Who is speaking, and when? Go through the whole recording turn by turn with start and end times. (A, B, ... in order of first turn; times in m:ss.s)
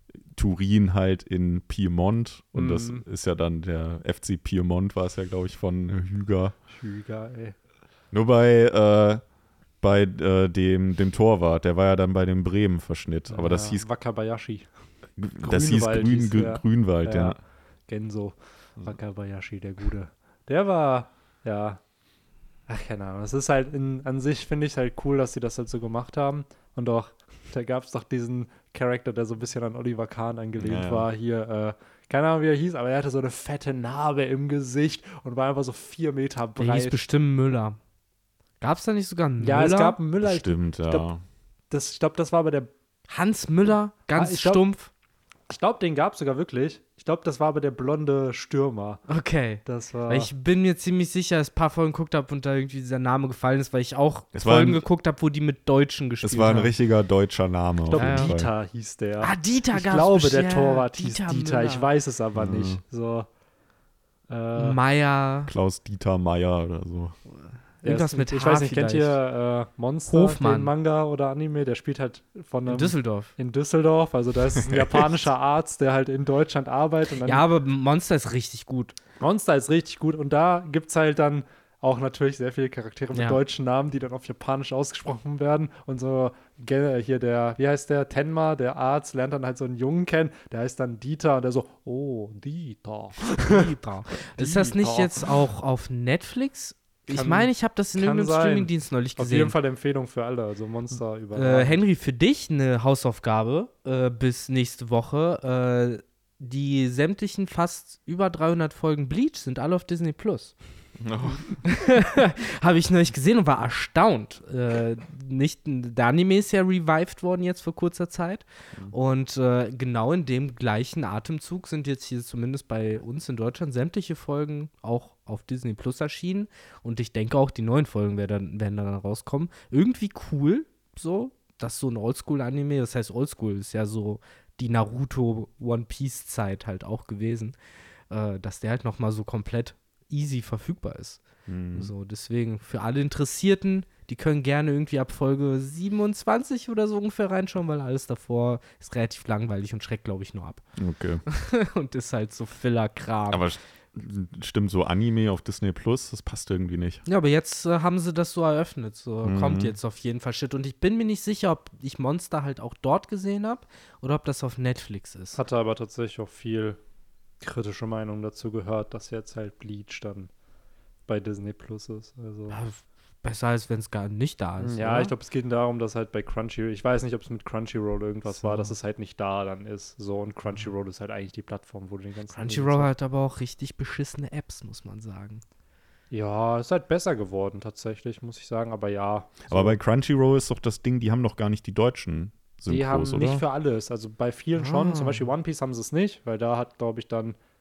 0:00.3-0:06.6 A
0:02.6-0:03.0 B
0:06.7-0:07.6 B
0:08.1-0:09.2 A
0:09.8-0:13.9 A
0:13.3-0:14.7 B
0:15.2-0:17.4 A
0:15.4-0:17.4 B
0:17.9-0:21.8 B
0:22.7-0:37.0 B
0:30.6-0:31.1 A
0:36.6-0:37.8 C
0:38.6-0:40.0 C
0:39.4-0:41.1 B
0:40.2-0:41.2 A
0:41.7-0:42.7 B
0:43.1-0:44.9 C
0:44.2-0:44.6 B
0:45.5-0:49.0 B
0:49.1-0:56.7 C
0:49.6-0:50.3 B
0:54.3-0:54.8 A
0:56.2-0:58.5 A
0:57.9-1:03.3 B
0:58.0-0:58.4 C
0:59.2-1:01.9 C
1:02.4-1:02.8 A
1:04.3-1:04.8 B
1:04.6-1:05.5 C
1:05.5-1:07.2 A
1:07.8-1:09.2 C
1:07.8-1:17.4 B
1:10.1-1:10.7 C
1:12.7-1:13.3 C
1:17.2-1:19.0 C
1:19.2-1:33.6 B
1:23.1-1:23.4 C
1:33.4-1:39.6 C
1:34.4-1:35.3 B
1:37.1-1:41.8 B
1:41.3-1:50.6 C
1:51.0-1:51.6 A
1:51.6-2:17.6 C
2:18.1-2:30.6 C
2:21.5-2:21.9 A
2:30.8-2:31.2 A
2:31.3-2:33.5 C
2:33.3-2:37.0 A
2:37.1-2:45.4 C
2:39.2-2:39.8 A
2:45.3-2:46.8 B
2:47.4-2:50.3 B
2:51.1-2:52.6 B
2:52.5-2:55.1 C
2:54.6-3:02.9 B
2:58.3-2:58.8 C
3:02.3-3:05.4 C
3:06.1-3:09.8 B
3:09.5-3:13.4 A
3:12.7-3:17.4 B
3:14.6-3:15.3 C